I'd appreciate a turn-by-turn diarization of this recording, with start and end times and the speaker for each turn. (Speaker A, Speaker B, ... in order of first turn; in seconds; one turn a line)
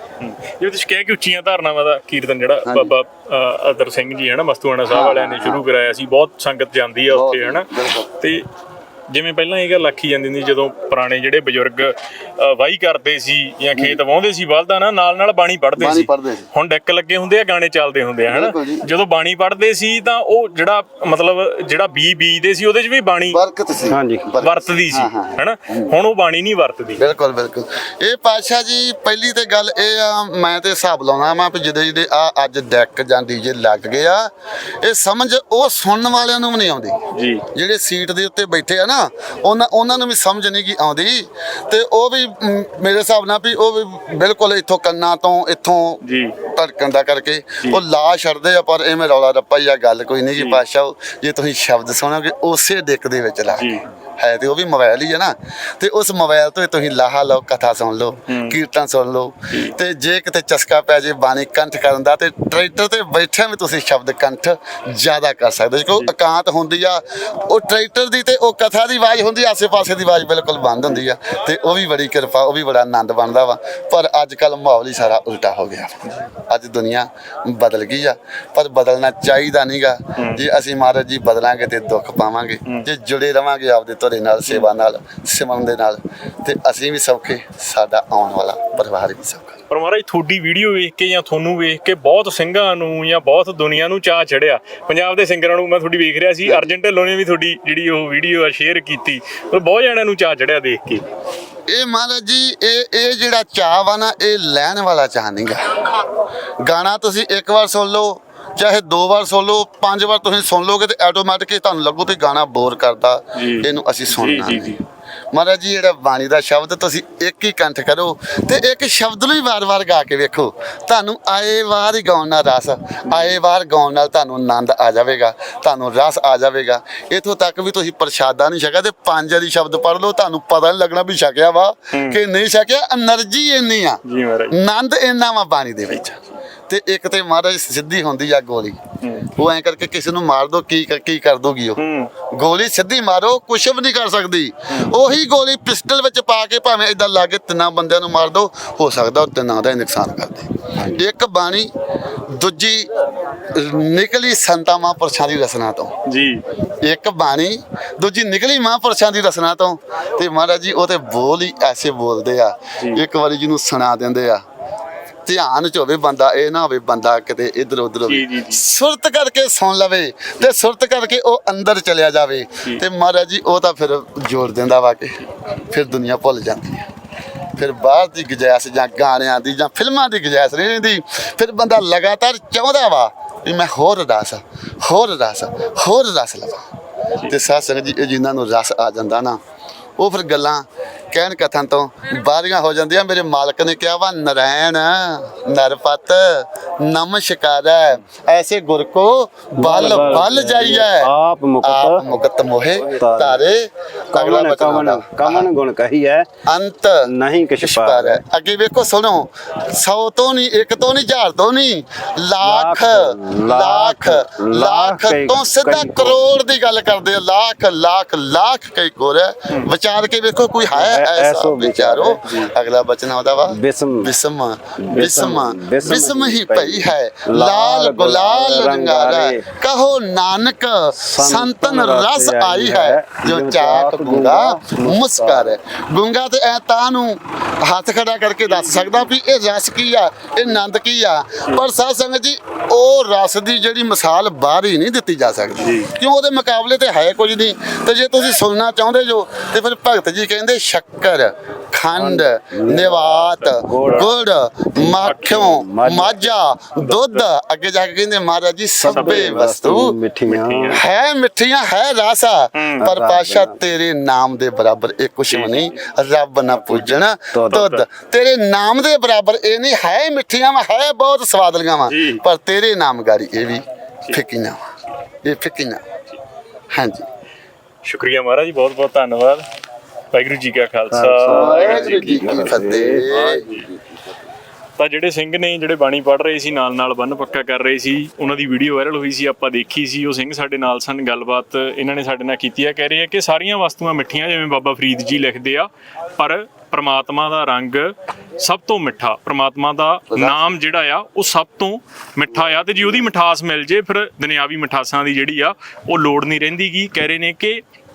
Speaker A: 0.2-8.4
Speaker B: 2.6-2.9
Speaker B: 4.9-5.6
Speaker B: 7.1-8.1
Speaker A: 9.1-23.4
Speaker B: 15.8-16.5
Speaker B: 18.3-18.8
Speaker B: 23.3-25.9
Speaker C: 23.9-24.3
Speaker A: 24.4-27.0
Speaker B: 27.0-34.3
Speaker B: 34.8-89.6
Speaker A: 37.1-37.5
Speaker A: 46.0-46.4
Speaker A: 53.5-53.9
Speaker A: 58.3-58.6
Speaker A: 59.5-59.8
Speaker A: 80.2-80.4
Speaker A: 89.7-101.0
Speaker B: 96.5-96.7
Speaker B: 101.7-114.8
Speaker A: 113.3-114.8
Speaker B: 115.3-151.7
Speaker A: 123.1-123.4
Speaker A: 131.9-132.2
Speaker A: 134.0-134.6
Speaker A: 139.0-139.3
Speaker A: 141.8-142.1
Speaker B: 152.3-152.9
Speaker B: 153.4-156.0
Speaker A: 156.1-156.4
Speaker B: 156.8-164.4
Speaker B: 165.3-176.9
Speaker A: 168.1-168.6
Speaker B: 177.6-186.7
Speaker B: 187.2-189.4
Speaker B: 190.0-201.1
Speaker C: 199.6-202.1
Speaker B: 201.6-205.5
Speaker C: 202.8-203.4
Speaker C: 204.1-206.3
Speaker B: 206.5-260.0
Speaker C: 207.1-208.2
Speaker C: 212.4-216.2
Speaker C: 220.7-222.4
Speaker C: 223.5-224.1
Speaker C: 224.8-229.4
Speaker C: 231.0-235.5
Speaker A: 238.6-238.9
Speaker A: 245.6-245.9
Speaker C: 251.9-253.1
Speaker A: 253.3-254.1
Speaker C: 253.6-254.1
Speaker C: 254.8-256.3
Speaker A: 255.0-255.5
Speaker A: 256.8-257.3
Speaker C: 258.8-260.8
Speaker A: 258.9-259.4
Speaker A: 260.3-260.8
Speaker B: 260.7-274.7
Speaker A: 262.6-262.9
Speaker C: 262.8-263.6
Speaker A: 265.3-265.6
Speaker A: 266.7-267.0
Speaker C: 267.3-267.7
Speaker A: 267.5-267.9
Speaker A: 271.9-272.2
Speaker B: 275.2-275.9
Speaker B: 276.7-277.1
Speaker A: 277.8-279.4
Speaker A: 280.1-282.1
Speaker C: 280.9-283.1
Speaker B: 281.3-283.4
Speaker A: 283.1-283.7
Speaker A: 284.8-307.6
Speaker B: 300.1-300.5